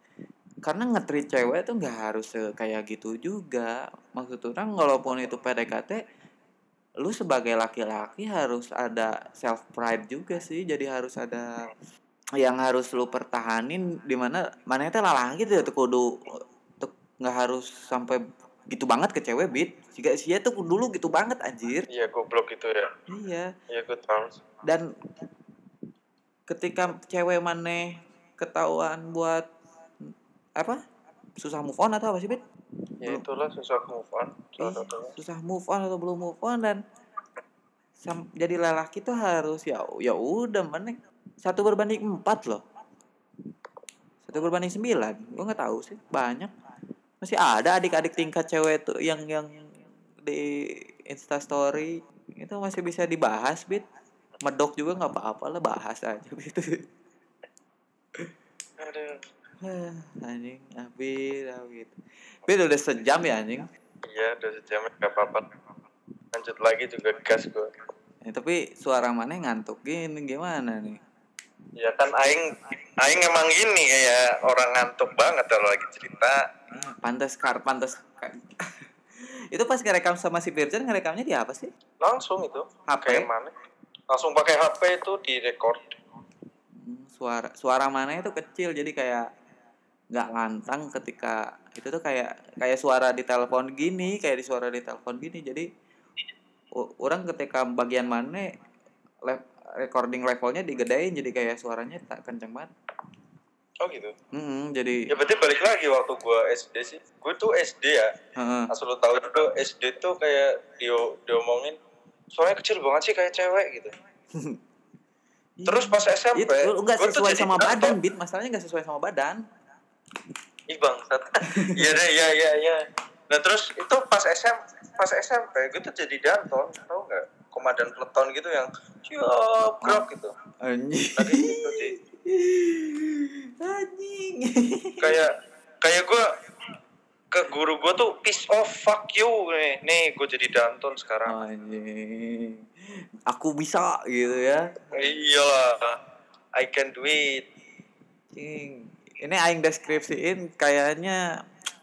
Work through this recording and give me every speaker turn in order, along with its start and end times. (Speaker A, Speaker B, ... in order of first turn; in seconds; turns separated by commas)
Speaker A: 0.6-6.0, Speaker A: 7.0-11.6, Speaker A: 12.4-21.9, Speaker B: 21.9-22.9, Speaker A: 23.1-23.5, Speaker B: 23.7-24.4, Speaker A: 24.6-24.9, Speaker A: 26.5-29.5, Speaker A: 30.0-30.8, Speaker A: 31.4-32.4, Speaker B: 33.0-35.1, Speaker A: 34.6-36.8, Speaker A: 38.0-42.6, Speaker A: 44.2-46.5, Speaker A: 47.2-53.8, Speaker A: 54.4-56.8, Speaker B: 58.8-59.2, Speaker A: 59.6-63.7, Speaker B: 64.1-65.5, Speaker B: 66.3-67.7, Speaker A: 68.2-71.0, Speaker B: 71.8-76.4, Speaker A: 76.7-81.7, Speaker B: 82.0-83.5, Speaker A: 82.9-83.3, Speaker B: 84.1-85.9, Speaker A: 86.8-89.3, Speaker A: 90.1-95.7, Speaker A: 96.7-98.5, Speaker A: 99.2-102.7, Speaker B: 103.8-104.1, Speaker A: 104.3-105.1, Speaker B: 105.1-108.1, Speaker A: 108.4-108.7, Speaker B: 108.7-111.8, Speaker B: 112.3-113.9, Speaker A: 114.3-114.6, Speaker A: 115.6-119.4, Speaker B: 115.7-118.0, Speaker B: 120.7-130.3, Speaker A: 121.5-121.9, Speaker A: 129.8-130.1, Speaker A: 130.6-135.2, Speaker B: 131.1-131.9, Speaker B: 135.0-136.3, Speaker B: 137.3-141.4, Speaker A: 141.3-142.7, Speaker A: 143.3-145.2, Speaker B: 144.9-146.0, Speaker B: 146.6-147.4, Speaker A: 148.3-151.2